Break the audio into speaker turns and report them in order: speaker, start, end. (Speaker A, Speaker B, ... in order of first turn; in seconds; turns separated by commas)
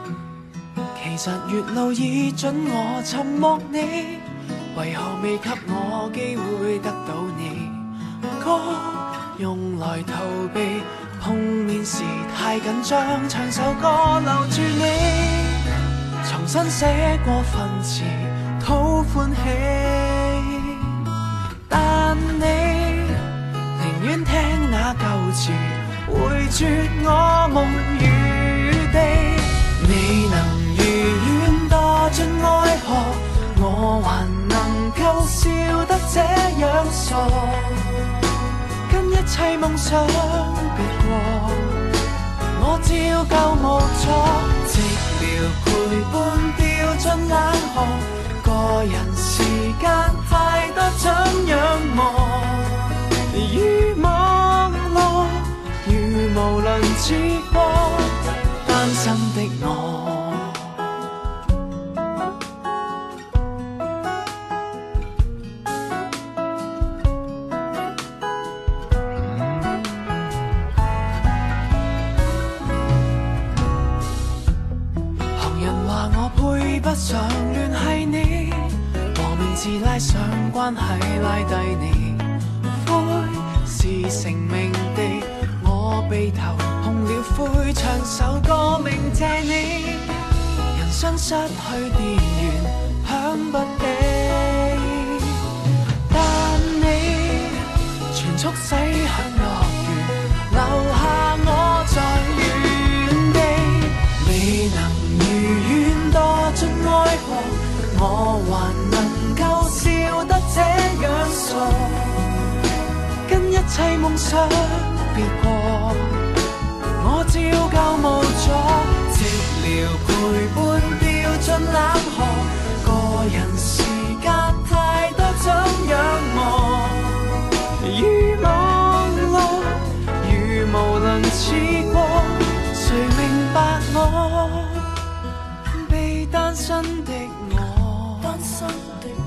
Speaker A: 0.9-21.1, Speaker A: 21.7-38.2, Speaker A: 38.9-41.9, Speaker A: 42.5-60.8, Speaker A: 75.3-95.4, Speaker A: 96.1-112.3, Speaker A: 113.2-116.3, Speaker A: 117.0-135.0, Speaker A: 135.7-138.6